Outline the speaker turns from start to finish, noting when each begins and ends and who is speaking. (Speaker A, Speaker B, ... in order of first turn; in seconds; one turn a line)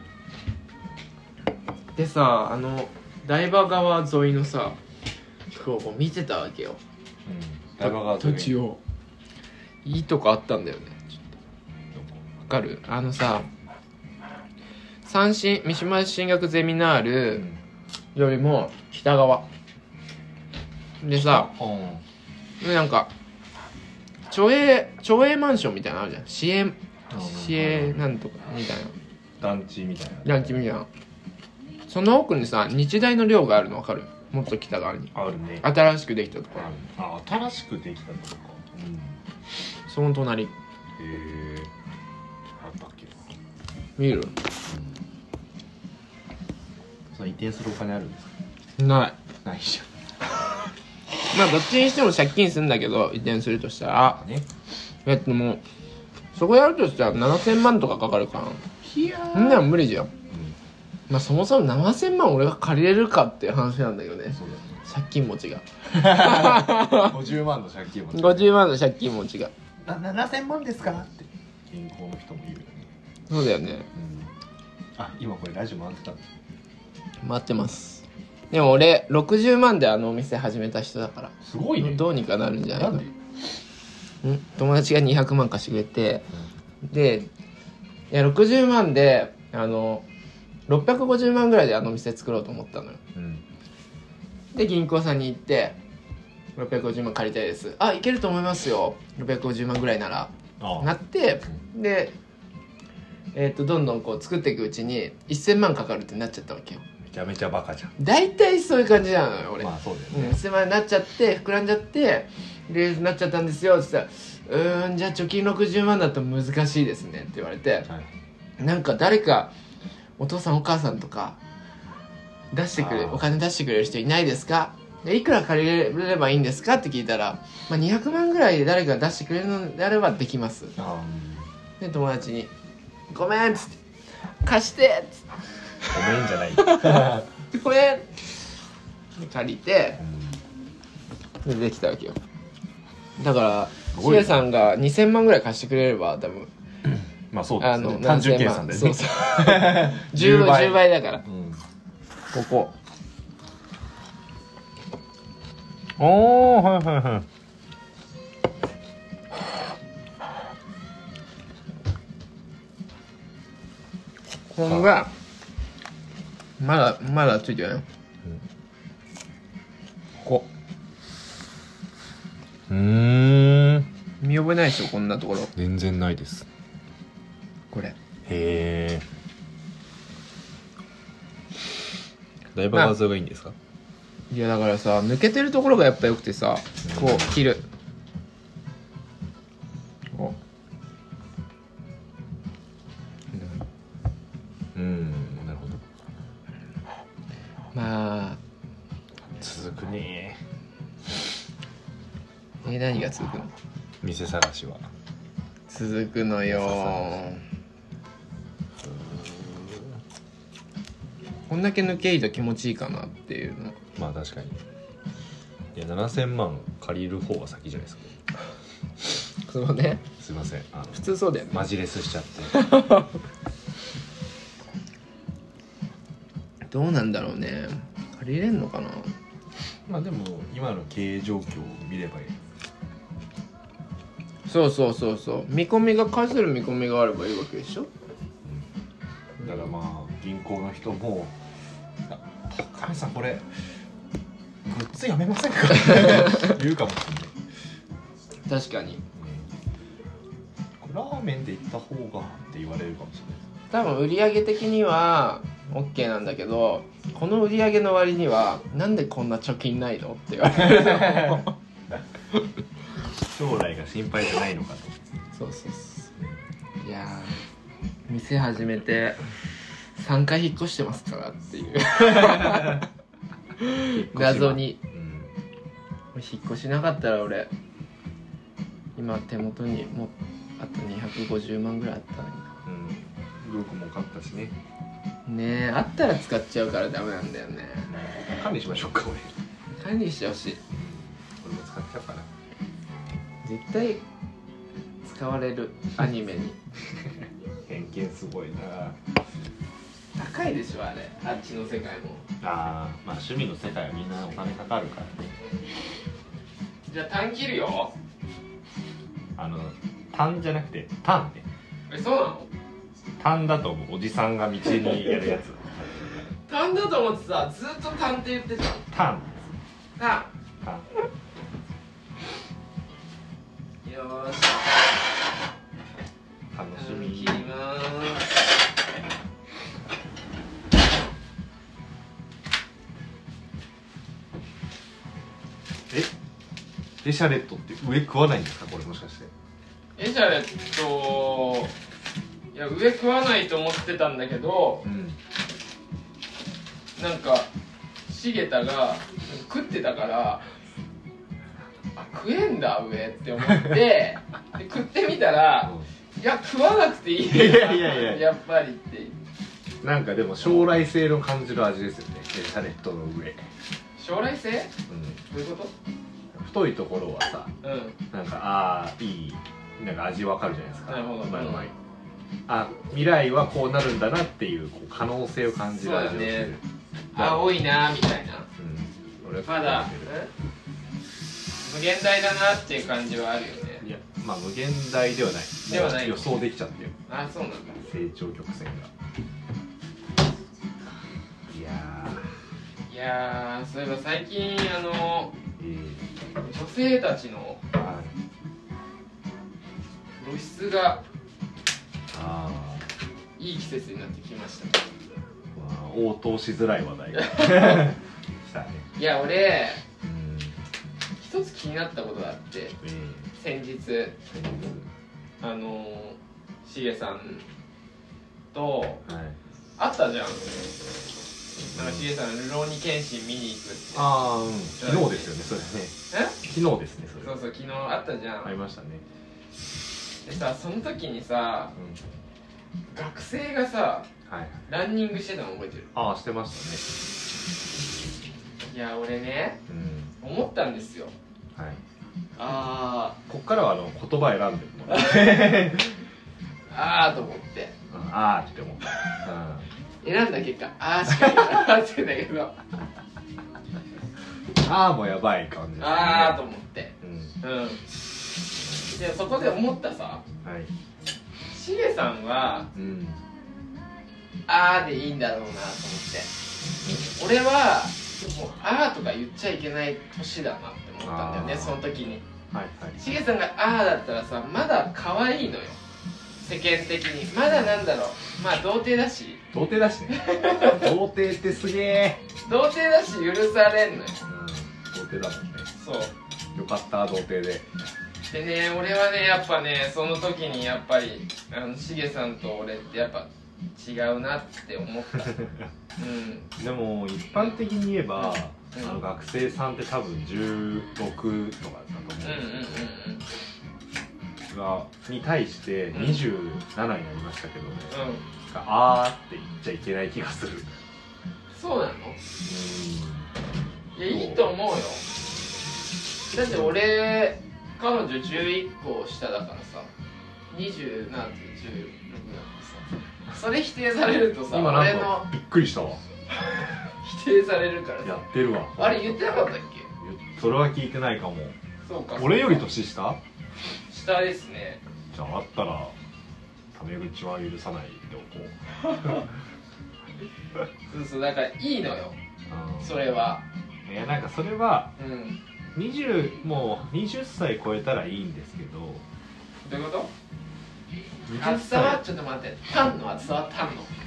Speaker A: 1.9-4.8
Speaker A: 5.5-6.8
Speaker B: 7.2-8.6
Speaker A: 7.8-8.8
Speaker A: 9.8-11.1
Speaker B: 11.9-12.2
Speaker A: 12.4-13.5
Speaker A: 15.0-17.4
Speaker B: 17.3-17.6
Speaker A: 18.1-19.4
Speaker A: 21.0-21.5
Speaker B: 21.1-22.0
Speaker A: 22.6-23.1
Speaker A: 24.3-28.9
Speaker B: 27.1-28.0
Speaker B: 29.4-30.6
Speaker A: 30.2-30.9
Speaker A: 31.9-36.7
Speaker B: 35.1-35.7
Speaker B: 36.5-39.2
Speaker A: 39.9-40.5
Speaker B: 41.0-41.7
Speaker B: 42.5-43.2
Speaker A: 44.0-44.3
Speaker B: 44.7-45.0
Speaker B: 47.1-48.3
Speaker A: 48.8-49.2
Speaker B: 49.4-49.9
Speaker A: 51.3-54.2
Speaker B: 54.1-54.5
Speaker A: 55.0-55.6
Speaker A: 56.3-58.6
Speaker B: 58.8-59.7
Speaker A: 59.3-60.1
Speaker B: 60.3-60.6
Speaker A: 61.1-67.1
Speaker B: 64.3-64.8
Speaker B: 65.9-68.5
Speaker A: 68.1-69.5
Speaker B: 69.8-72.9
Speaker A: 73.3-73.9
Speaker B: 73.9-74.3
Speaker B: 75.0-76.2
Speaker A: 77.2-83.1
Speaker B: 81.4-82.0
Speaker B: 82.7-83.1
Speaker A: 84.2-86.2
Speaker A: 86.8-87.3
Speaker A: 88.1-90.0
Speaker A: 90.7-93.0
Speaker B: 93.1-93.4
Speaker A: 94.5-95.8
Speaker A: 96.6-102.1
Speaker B: 100.6-100.9
Speaker A: 103.3-106.8
Speaker B: 107.0-108.0
Speaker A: 108.0-117.9
Speaker B: 109.6-110.4
Speaker A: 118.6-119.5
Speaker A: 120.2-121.4
Speaker A: 122.5-130.7
Speaker B: 122.7-123.3
Speaker B: 130.8-131.5
Speaker A: 131.8-132.5
Speaker A: 133.1-133.8
Speaker A: 134.4-135.3
Speaker B: 135.9-137.2
Speaker A: 136.6-138.3
Speaker A: 139.2-140.0
Speaker B: 140.0-140.4
Speaker A: 141.4-142.2
Speaker A: 143.2-146.5
Speaker B: 143.9-144.4
Speaker B: 147.3-151.6
Speaker A: 147.6-151.2
Speaker A: 152.3-152.7
Speaker B: 156.0-157.2
Speaker A: 164.5-165.1
Speaker A: 166.6-167.8
Speaker B: 170.2-170.5
Speaker B: 172.7-173.9
Speaker A: 174.2-175.5
Speaker B: 175.5-176.4
Speaker B: 178.2-179.1
Speaker B: 182.5-183.6
Speaker A: 184.3-187.6
Speaker B: 186.8-187.3
Speaker B: 194.7-195.8
Speaker A: 197.7-198.4
Speaker B: 199.4-200.4
Speaker A: 202.6-203.5
Speaker B: 204.0-204.8
Speaker A: 205.7-207.4
Speaker B: 206.4-207.2
Speaker B: 208.8-210.0
Speaker A: 211.5-213.8
Speaker B: 213.9-214.6
Speaker B: 215.7-218.1
Speaker A: 219.4-220.0
Speaker B: 220.2-222.7
Speaker A: 220.9-221.6
Speaker A: 222.5-223.1
Speaker A: 226.7-229.1
Speaker B: 229.9-232.3
Speaker A: 234.5-237.9
Speaker B: 239.4-241.3
Speaker B: 242.1-243.5
Speaker B: 244.6-247.3
Speaker A: 248.5-249.0
Speaker B: 249.1-249.5
Speaker B: 250.8-253.4
Speaker A: 253.7-261.5
Speaker B: 260.5-261.4
Speaker B: 263.2-264.9
Speaker A: 265.3-266.1
Speaker A: 266.8-267.4
Speaker A: 268.1-269.2
Speaker A: 270.0-272.9
Speaker B: 272.1-272.8
Speaker A: 273.6-274.8
Speaker B: 273.8-275.3
Speaker A: 276.1-277.5
Speaker A: 279.0-282.5
Speaker B: 282.6-284.6
Speaker A: 285.3-287.9
Speaker B: 287.9-289.4
Speaker A: 289.8-290.6
Speaker B: 290.7-292.3
Speaker A: 293.4-294.0
Speaker A: 295.0-296.6
Speaker B: 297.6-299.0
Speaker A: 300.1-302.2
Speaker B: 302.4-305.3
Speaker A: 306.9-307.9
Speaker B: 309.4-311.4
Speaker A: 311.9-312.5
Speaker B: 313.2-316.2
Speaker A: 316.5-318.8
Speaker B: 318.9-319.5
Speaker A: 320.0-320.3
Speaker B: 320.6-320.9
Speaker A: 323.8-324.9
Speaker B: 326.5-327.4
Speaker A: 326.7-328.3
Speaker B: 337.0-339.3
Speaker A: 340.0-341.7
Speaker A: 342.5-344.8
Speaker B: 344.8-345.2
Speaker A: 347.0-347.5
Speaker A: 348.1-350.4
Speaker A: 351.9-359.1
Speaker B: 357.2-358.2
Speaker B: 359.8-363.4
Speaker A: 364.0-364.7
Speaker B: 364.9-365.2
Speaker A: 365.3-365.7
Speaker B: 366.3-367.5
Speaker A: 367.6-368.0
Speaker B: 368.1-371.7
Speaker A: 370.9-371.7
Speaker B: 372.5-376.6
Speaker A: 375.8-376.6
Speaker A: 377.1-378.5
Speaker B: 377.1-377.6
Speaker B: 378.6-380.1
Speaker A: 379.4-380.3
Speaker A: 381.6-383.8
Speaker B: 383.8-386.9
Speaker A: 385.7-386.3
Speaker A: 387.1-387.9
Speaker B: 387.8-388.9
Speaker B: 391.5-392.3
Speaker A: 392.9-395.3
Speaker B: 395.6-396.1
Speaker A: 396.4-397.6
Speaker B: 397.7-398.1
Speaker A: 400.2-401.0
Speaker B: 402.1-402.9
Speaker A: 403.4-404.9
Speaker B: 405.5-408.9
Speaker A: 407.1-407.9
Speaker A: 408.9-409.8
Speaker B: 410.0-410.6
Speaker A: 411.2-412.8
Speaker B: 412.8-413.3
Speaker A: 413.4-414.2
Speaker B: 414.3-414.9
Speaker A: 415.4-417.4
Speaker A: 418.5-419.0
Speaker B: 419.1-419.4
Speaker A: 419.8-420.5
Speaker A: 421.7-424.2
Speaker B: 421.7-422.1
Speaker B: 423.9-427.4
Speaker A: 424.8-425.3
Speaker A: 426.1-426.4
Speaker A: 427.2-428.5
Speaker B: 428.4-429.0
Speaker A: 430.2-431.7
Speaker B: 431.7-432.0
Speaker A: 432.9-434.1
Speaker B: 434.2-434.6
Speaker A: 434.7-435.9
Speaker B: 435.9-436.9
Speaker A: 438.7-439.6
Speaker B: 439.7-440.1
Speaker A: 440.2-441.1
Speaker B: 441.5-441.8
Speaker A: 442.4-443.2
Speaker B: 443.3-446.0
Speaker A: 444.9-445.6
Speaker A: 446.7-447.7
Speaker B: 447.9-449.7
Speaker A: 450.0-452.6
Speaker B: 451.2-451.5
Speaker B: 454.5-456.4
Speaker A: 455.8-457.8
Speaker B: 457.0-457.3
Speaker A: 458.9-460.2
Speaker B: 460.4-460.7
Speaker A: 461.5-462.7
Speaker B: 462.7-463.2
Speaker A: 464.5-466.3
Speaker A: 467.0-472.2
Speaker B: 471.0-471.8
Speaker B: 472.5-473.0
Speaker A: 473.0-475.8
Speaker A: 476.4-479.4
Speaker B: 477.5-477.9
Speaker B: 479.5-482.2
Speaker A: 480.1-480.9
Speaker A: 482.4-484.2
Speaker B: 484.3-485.7
Speaker A: 485.8-486.1
Speaker B: 486.5-487.7
Speaker A: 488.3-496.5
Speaker B: 496.6-502.9
Speaker A: 498.2-499.0
Speaker A: 502.2-503.2
Speaker B: 504.5-510.7
Speaker A: 505.9-506.2
Speaker A: 507.9-508.2
Speaker A: 511.5-512.2
Speaker B: 512.4-513.3
Speaker A: 513.9-515.0
Speaker B: 514.0-514.5
Speaker A: 516.3-519.9
Speaker A: 520.5-525.3
Speaker B: 524.5-526.0
Speaker A: 527.0-528.2
Speaker B: 528.0-529.2
Speaker A: 528.8-529.9
Speaker B: 530.0-531.5
Speaker A: 531.8-532.6
Speaker B: 532.2-533.2
Speaker A: 533.9-534.8
Speaker B: 535.1-535.9
Speaker B: 536.7-539.3
Speaker A: 540.9-542.2
Speaker B: 542.5-542.9
Speaker A: 542.8-543.4
Speaker B: 543.9-544.9
Speaker A: 545.0-545.4
Speaker B: 545.7-549.0
Speaker A: 549.6-550.1
Speaker B: 551.3-552.0
Speaker A: 551.4-553.9